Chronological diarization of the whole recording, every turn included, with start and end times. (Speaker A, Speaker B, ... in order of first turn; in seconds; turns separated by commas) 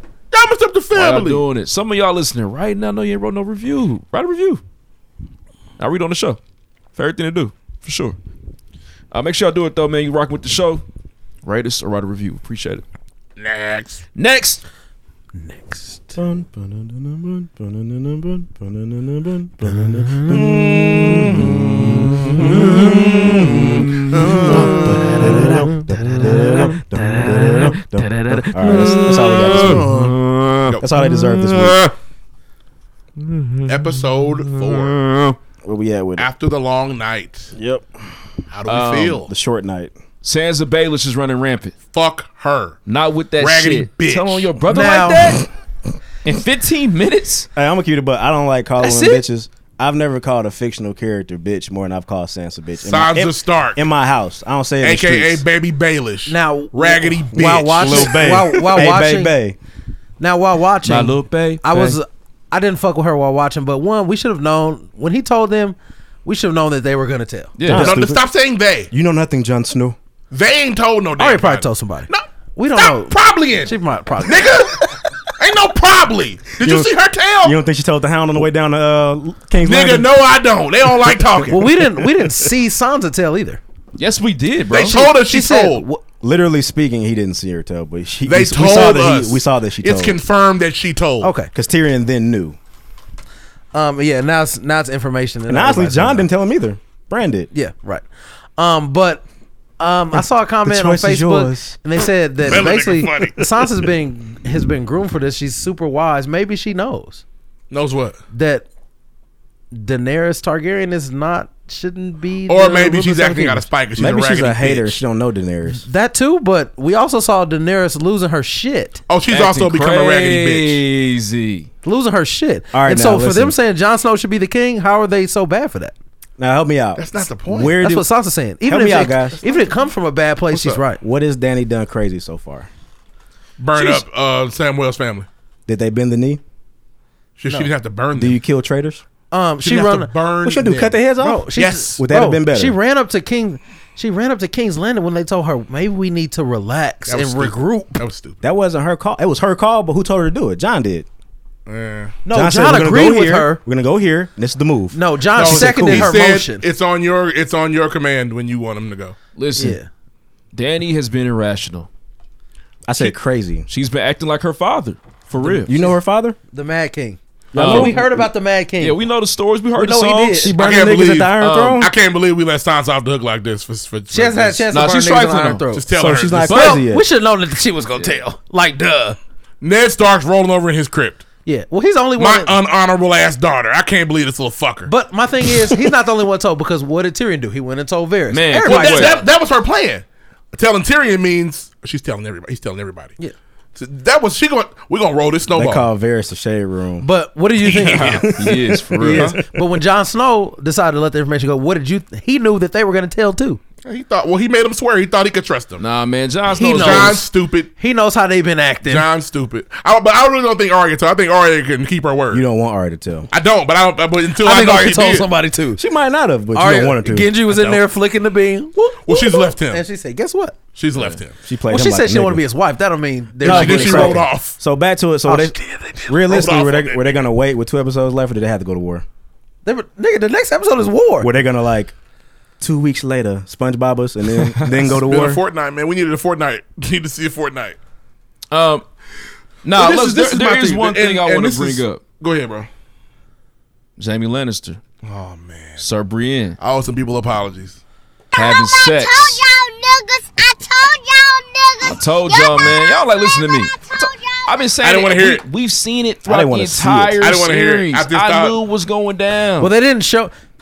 Speaker A: 0.3-1.4, Speaker B: 0.9-4.6, Speaker B: 5.8-6.4, Speaker B: 7.0-8.2, Speaker B: 9.1-10.8, Speaker B: 11.4-12.8, Speaker A: 13.4-14.0, Speaker B: 14.2-14.6, Speaker C: 15.4-16.2, Speaker D: 16.2-29.9, Speaker C: 19.8-20.3, Speaker B: 20.3-31.9, Speaker A: 24.1-25.0, Speaker A: 29.7-30.1, Speaker D: 30.8-31.8, Speaker B: 33.2-35.4, Speaker A: 33.7-35.0, Speaker D: 35.6-36.3, Speaker A: 36.2-37.5, Speaker D: 37.5-37.9, Speaker A: 38.5-39.3, Speaker B: 38.7-39.3, Speaker D: 39.3-39.9, Speaker B: 40.2-41.8, Speaker A: 41.9-42.8, Speaker B: 42.9-45.5, Speaker A: 43.4-44.5, Speaker C: 44.7-45.4, Speaker B: 46.2-47.5, Speaker D: 47.6-55.5, Speaker B: 48.9-49.2, Speaker A: 52.8-53.8, Speaker A: 54.8-58.4, Speaker C: 56.3-59.4, Speaker D: 57.8-59.6, Speaker C: 60.2-67.6, Speaker B: 60.9-62.0, Speaker B: 67.6-68.0, Speaker D: 67.7-68.2, Speaker A: 67.7-68.9, Speaker D: 68.9-70.0, Speaker A: 70.3-77.6, Speaker C: 71.2-74.6, Speaker D: 76.6-80.1, Speaker A: 79.6-81.6, Speaker D: 81.0-81.3, Speaker C: 81.5-83.6, Speaker B: 84.0-85.1, Speaker A: 84.7-85.8, Speaker C: 84.9-86.0, Speaker D: 86.2-90.2, Speaker A: 88.3-91.3, Speaker C: 91.2-91.5, Speaker D: 91.5-92.6, Speaker C: 93.7-96.3, Speaker D: 95.5-97.5, Speaker C: 97.5-98.0, Speaker C: 98.6-99.2, Speaker C: 99.8-107.2, Speaker D: 100.2-101.8, Speaker A: 102.5-103.4, Speaker A: 107.7-108.2, Speaker C: 108.3-108.7, Speaker C: 109.7-113.7, Speaker A: 112.5-115.0, Speaker D: 114.0-115.8, Speaker C: 115.7-119.0, Speaker A: 119.1-120.8, Speaker B: 119.3-121.7, Speaker C: 121.8-126.0, Speaker D: 122.7-123.5, Speaker D: 126.4-128.1, Speaker A: 127.0-127.8, Speaker C: 127.8-131.0, Speaker D: 128.6-129.4, Speaker A: 130.5-130.8, Speaker D: 131.0-132.7, Speaker A: 133.6-135.3, Speaker D: 135.7-136.4, Speaker A: 137.4-138.4, Speaker D: 138.1-139.0, Speaker C: 139.3-140.1, Speaker A: 139.6-141.0, Speaker D: 140.4-142.8, Speaker C: 141.2-147.9, Speaker A: 141.6-142.0, Speaker A: 147.1-148.4, Speaker D: 148.4-151.1, Speaker A: 151.7-152.2, Speaker C: 152.2-153.6, Speaker D: 152.3-156.1, Speaker C: 154.9-156.6, Speaker A: 155.3-159.2, Speaker B: 159.4-159.8, Speaker C: 159.6-159.9, Speaker B: 160.5-161.9, Speaker D: 162.9-163.7, Speaker B: 163.7-165.7, Speaker C: 165.4-165.9, Speaker D: 165.7-166.4, Speaker C: 166.5-169.0, Speaker D: 167.5-168.3, Speaker B: 167.5-168.0, Speaker B: 168.8-170.5, Speaker C: 169.8-170.6, Speaker D: 170.3-171.9, Speaker A: 170.6-174.7, Speaker B: 171.4-171.8, Speaker C: 174.1-175.9, Speaker B: 174.7-175.7, Speaker A: 175.7-176.8, Speaker D: 175.9-177.1, Speaker C: 176.5-179.2, Speaker A: 179.6-181.2, Speaker C: 181.4-182.5, Speaker A: 182.2-184.9, Speaker C: 184.9-189.2, Speaker B: 188.3-189.2, Speaker A: 188.6-193.2, Speaker A: 193.8-195.9, Speaker D: 195.5-197.1, Speaker C: 197.0-198.3, Speaker A: 197.7-198.3, Speaker B: 197.9-199.4, Speaker D: 198.0-199.4, Speaker A: 199.1-199.4, Speaker C: 199.3-203.6, Speaker A: 203.8-205.8, Speaker B: 205.8-207.2, Speaker C: 206.5-207.2, Speaker A: 206.6-207.7, Speaker C: 207.8-209.1, Speaker A: 208.8-212.4, Speaker D: 212.3-213.3, Speaker A: 213.3-215.3, Speaker C: 214.4-215.8, Speaker D: 215.8-217.3, Speaker C: 216.5-220.6, Speaker A: 217.5-217.8, Speaker A: 219.0-219.8, Speaker A: 220.8-221.3, Speaker D: 221.4-222.4, Speaker C: 221.7-224.2, Speaker D: 223.4-229.1, Speaker A: 223.4-224.6, Speaker A: 225.3-227.2, Speaker C: 229.7-231.3, Speaker D: 231.2-231.9, Speaker D: 232.6-235.4, Speaker A: 234.9-237.8, Speaker B: 238.5-238.8, Speaker B: 239.6-242.0, Speaker A: 239.8-242.7, Speaker B: 244.0-244.8, Speaker A: 245.0-245.8, Speaker B: 245.8-246.6, Speaker A: 246.6-247.8, Speaker E: 248.3-254.7, Speaker B: 248.3-249.4, Speaker B: 251.8-259.7, Speaker A: 254.8-255.4, Speaker D: 256.2-257.2, Speaker A: 257.2-258.6, Speaker C: 259.6-260.3